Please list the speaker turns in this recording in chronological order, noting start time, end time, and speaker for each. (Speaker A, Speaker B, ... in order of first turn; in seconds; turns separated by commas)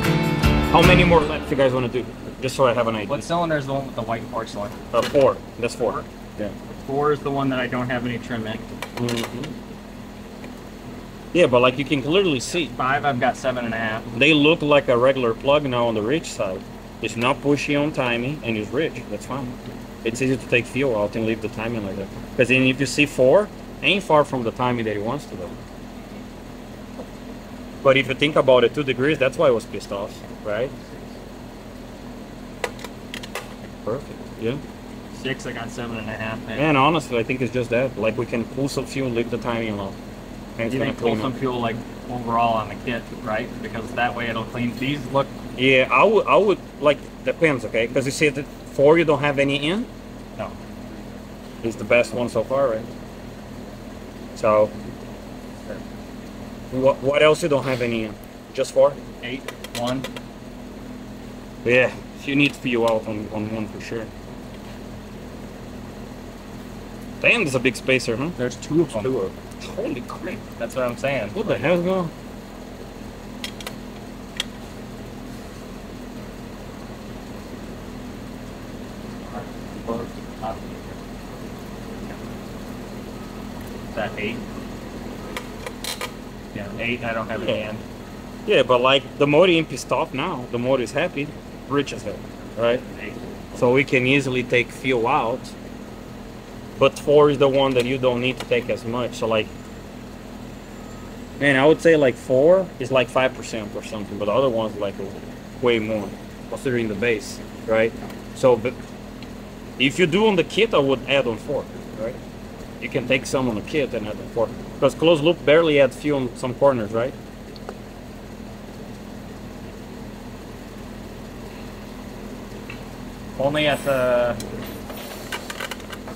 Speaker A: 0.7-3.3, Speaker B: 3.1-4.8, Speaker A: 4.9-6.5, Speaker B: 5.8-6.1, Speaker B: 6.8-8.7, Speaker A: 9.0-9.6, Speaker A: 11.3-12.7, Speaker B: 12.6-14.1, Speaker A: 14.1-25.6, Speaker A: 27.8-30.7, Speaker A: 33.9-34.6, Speaker B: 35.2-36.7, Speaker A: 36.6-40.0, Speaker A: 40.6-41.3, Speaker B: 40.7-45.4, Speaker A: 45.6-49.9, Speaker A: 51.6-52.9, Speaker A: 54.4-54.8, Speaker A: 56.7-59.0, Speaker B: 59.2-60.1, Speaker A: 61.6-64.1, Speaker A: 67.2-68.4, Speaker B: 68.4-69.1, Speaker A: 68.9-70.4, Speaker B: 70.5-71.7, Speaker A: 71.3-72.1, Speaker B: 79.3-80.9, Speaker B: 83.9-84.4, Speaker B: 86.5-87.8, Speaker A: 87.4-87.7, Speaker A: 88.5-92.8, Speaker A: 93.5-95.5, Speaker A: 96.8-99.5, Speaker A: 101.4-108.8, Speaker A: 109.8-112.2, Speaker A: 112.8-117.2, Speaker B: 123.4-124.4